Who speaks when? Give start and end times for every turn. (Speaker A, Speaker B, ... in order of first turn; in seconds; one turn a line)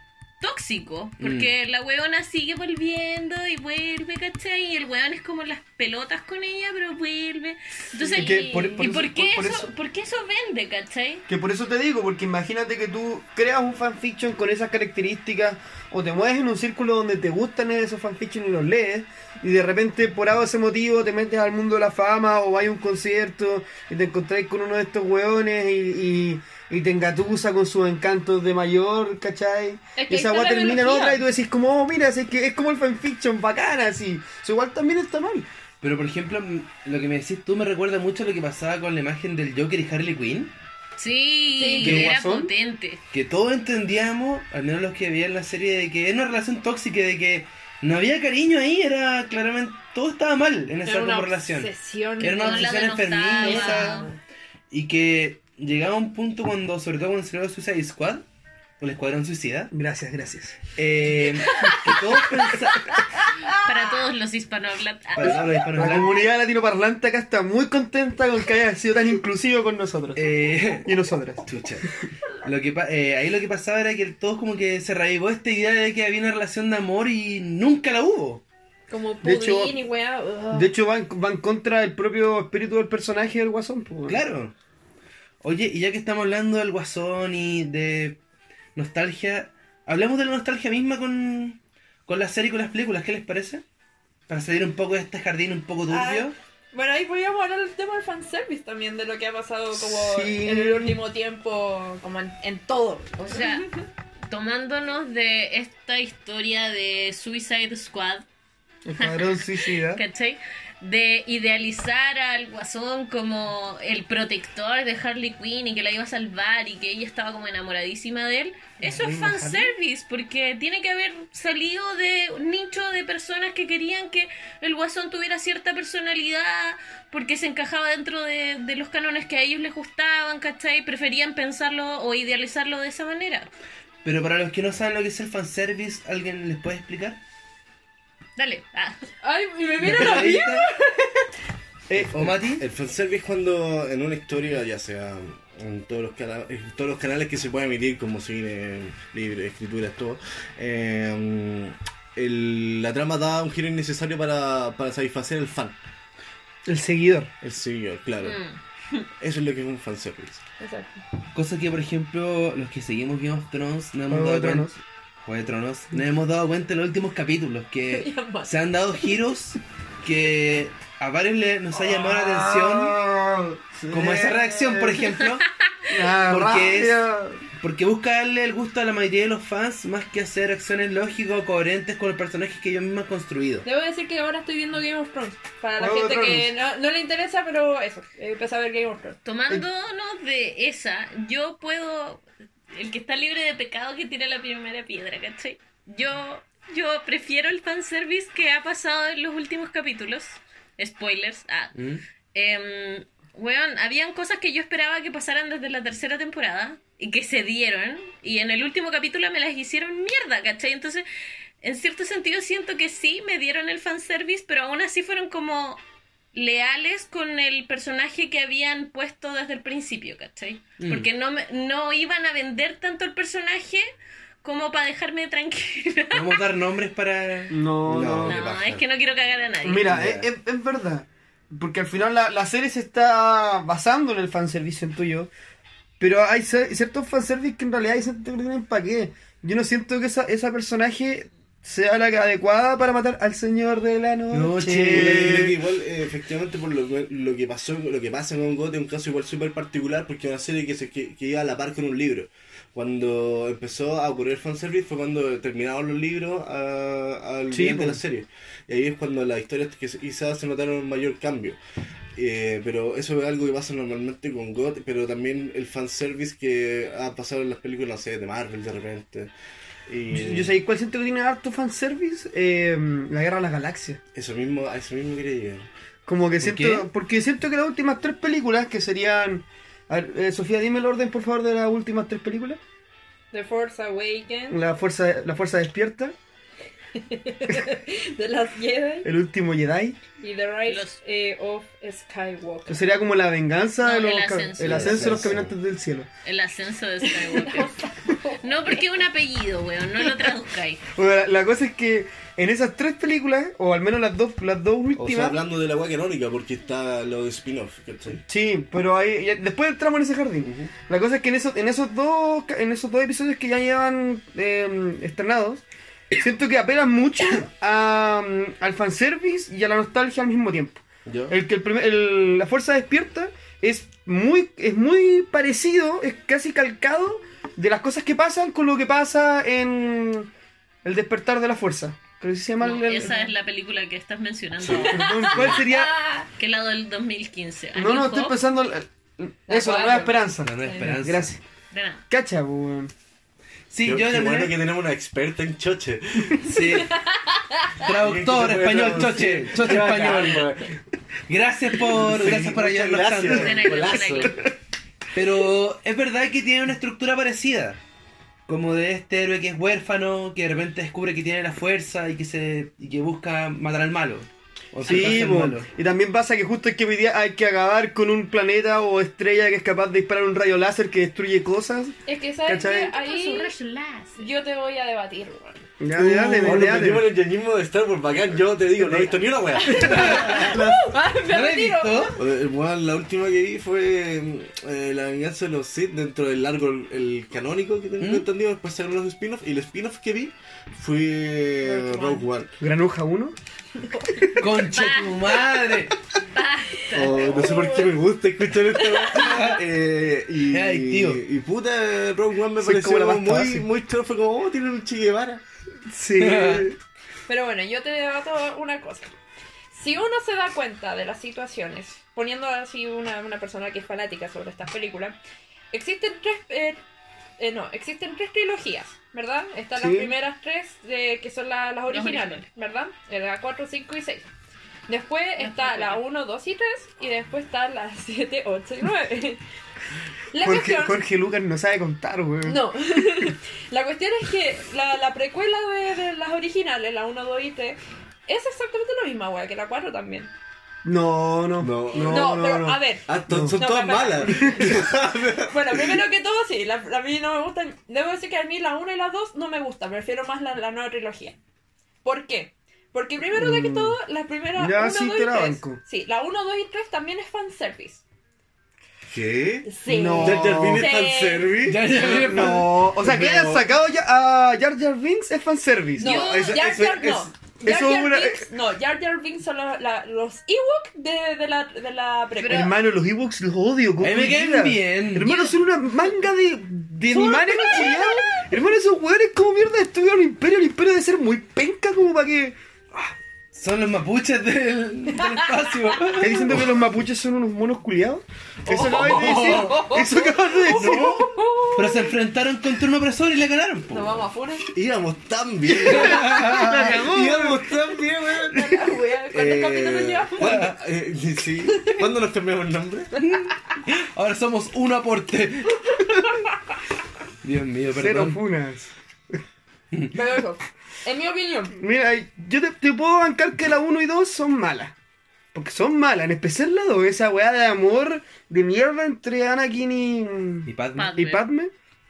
Speaker A: 0.4-11.3
Speaker B: 1.2-1.5
Speaker C: 7.9-8.8
Speaker D: 8.1-9.7
Speaker D: 11.3-35.5
Speaker C: 30.0-31.2
Speaker B: 35.8-40.5
Speaker A: 41.0-43.0
Speaker C: 41.6-42.0
Speaker B: 41.8-42.1
Speaker D: 41.8-42.5
Speaker B: 43.1-54.0
Speaker C: 50.9-54.2
Speaker A: 52.2-54.1
Speaker B: 54.7-58.2
Speaker B: 58.8-59.7
Speaker D: 59.7-60.6
Speaker B: 60.8-63.0
Speaker D: 61.9-62.5
Speaker A: 63.6-65.7
Speaker B: 65.1-66.1
Speaker D: 65.8-71.5
Speaker B: 70.2-70.9
Speaker B: 71.5-71.9
Speaker B: 72.4-78.4
Speaker C: 78.9-80.7
Speaker D: 79.2-79.8
Speaker D: 80.5-84.2
Speaker B: 84.1-84.5
Speaker B: 85.4-88.2
Speaker B: 88.8-93.6
Speaker B: 94.3-96.3
Speaker C: 95.9-103.8
Speaker D: 99.7-101.0
Speaker A: 103.3-103.7
Speaker A: 104.3-108.3
Speaker D: 108.9-110.0
Speaker A: 109.0-133.5
Speaker D: 118.8-119.7
Speaker B: 134.0-137.2
Speaker A: 138.4-139.1
Speaker C: 139.2-141.3
Speaker B: 139.8-140.7
Speaker D: 141.9-142.3
Speaker B: 142.1-142.6
Speaker E: 142.2-155.8
Speaker D: 156.7-157.3
Speaker E: 157.4-158.4
Speaker A: 158.2-159.1
Speaker E: 159.2-160.4
Speaker C: 160.6-161.0
Speaker B: 161.3-173.0
Speaker D: 164.1-164.8
Speaker C: 167.9-168.5
Speaker D: 171.7-175.1
Speaker B: 173.9-175.5
Speaker D: 175.9-177.4
Speaker B: 176.3-177.1
Speaker B: 177.6-183.7
Speaker C: 183.6-189.2
Speaker D: 185.8-186.5
Speaker A: 189.2-201.8
Speaker B: 201.8-202.0
Speaker A: 202.3-211.1
Speaker A: 211.6-215.8
Speaker A: 216.3-223.8
Speaker B: 220.8-221.1
Speaker A: 224.4-226.4
Speaker B: 226.1-227.6
Speaker D: 227.5-228.4
Speaker E: 227.9-228.8
Speaker A: 228.2-229.9
Speaker D: 229.6-235.3
Speaker B: 229.9-230.2
Speaker D: 236.0-245.6
Speaker B: 244.3-245.5
Speaker E: 244.9-261.6
Speaker D: 257.5-258.0
Speaker E: 262.1-269.3
Speaker E: 269.9-270.5
Speaker D: 270.1-274.0
Speaker E: 274.1-275.7
Speaker D: 276.1-282.6
Speaker B: 276.4-276.9
Speaker C: 283.3-284.6
Speaker D: 284.5-286.1
Speaker C: 287.0-289.1
Speaker D: 289.0-290.0
Speaker C: 290.2-292.8
Speaker A: 290.7-291.0
Speaker D: 292.7-296.1
Speaker A: 293.8-295.3
Speaker E: 294.6-295.5
Speaker A: 296.2-297.8
Speaker C: 297.0-298.8
Speaker A: 298.4-300.8
Speaker D: 300.9-305.4
Speaker E: 305.0-308.2
Speaker D: 308.3-330.3
Speaker E: 310.4-310.7
Speaker E: 321.1-321.4
Speaker D: 330.8-333.2
Speaker A: 332.6-335.6
Speaker C: 333.0-333.3
Speaker E: 334.6-335.6
Speaker D: 334.8-335.9
Speaker C: 334.9-336.3
Speaker A: 336.3-338.4
Speaker D: 337.8-341.4
Speaker C: 339.5-340.9
Speaker B: 340.4-341.3
Speaker A: 341.7-342.0
Speaker D: 342.1-342.9
Speaker B: 343.7-344.6
Speaker E: 343.8-346.6
Speaker B: 346.4-347.0
Speaker C: 346.6-347.9
Speaker B: 347.8-350.6
Speaker E: 347.9-350.8
Speaker B: 351.3-354.0
Speaker E: 351.8-354.5
Speaker A: 353.3-354.5
Speaker B: 355.1-357.8
Speaker B: 358.5-365.7
Speaker D: 364.8-372.9
Speaker C: 372.1-373.5
Speaker A: 372.7-374.3
Speaker C: 374.2-375.7
Speaker D: 375.8-377.1
Speaker E: 375.9-380.8
Speaker D: 378.8-380.6
Speaker C: 379.6-382.2
Speaker B: 379.9-380.5
Speaker B: 381.3-382.2
Speaker E: 382.2-392.5
Speaker B: 388.0-388.3
Speaker C: 391.6-392.3
Speaker D: 392.6-393.4
Speaker C: 393.8-394.4
Speaker B: 394.4-395.9
Speaker A: 394.7-395.4
Speaker A: 396.3-397.6
Speaker E: 396.9-405.4
Speaker C: 397.0-398.0
Speaker C: 398.8-399.6
Speaker B: 399.2-399.6
Speaker B: 400.5-401.2
Speaker D: 402.6-403.7
Speaker D: 405.9-406.8
Speaker B: 406.2-406.7
Speaker C: 407.3-409.1
Speaker C: 409.7-415.2
Speaker C: 415.7-416.8
Speaker C: 417.4-424.3
Speaker D: 419.8-420.1
Speaker A: 421.9-422.5
Speaker C: 424.9-429.4
Speaker A: 425.4-426.0
Speaker C: 430.3-431.0
Speaker D: 430.4-432.6
Speaker C: 432.4-440.3
Speaker D: 440.9-443.6
Speaker E: 441.6-442.5
Speaker C: 441.9-451.4
Speaker E: 443.1-446.0
Speaker D: 444.3-444.9
Speaker C: 452.0-458.0
Speaker D: 453.3-454.0
Speaker D: 454.6-455.8
Speaker E: 459.1-463.7
Speaker C: 459.6-461.6
Speaker D: 459.9-460.9
Speaker B: 461.6-462.8
Speaker D: 461.9-466.3
Speaker C: 466.0-472.7
Speaker E: 466.1-467.3
Speaker A: 466.1-466.5
Speaker D: 467.6-468.5
Speaker A: 472.4-472.7
Speaker D: 472.5-483.1
Speaker B: 474.0-475.4
Speaker C: 477.1-478.5
Speaker B: 483.5-486.7
Speaker D: 486.2-491.3
Speaker C: 488.7-492.1
Speaker B: 489.0-489.7
Speaker E: 490.8-491.2
Speaker B: 491.8-494.2
Speaker C: 493.9-494.7
Speaker E: 494.7-503.1
Speaker D: 495.8-497.8
Speaker B: 495.9-496.9
Speaker C: 498.4-500.6
Speaker B: 500.4-500.7
Speaker C: 503.2-503.4
Speaker B: 503.2-506.3
Speaker C: 506.1-506.4
Speaker B: 507.4-508.4
Speaker D: 507.9-508.9
Speaker C: 510.1-511.8
Speaker D: 511.8-515.0
Speaker D: 515.5-521.7
Speaker B: 520.7-521.2
Speaker A: 521.0-521.4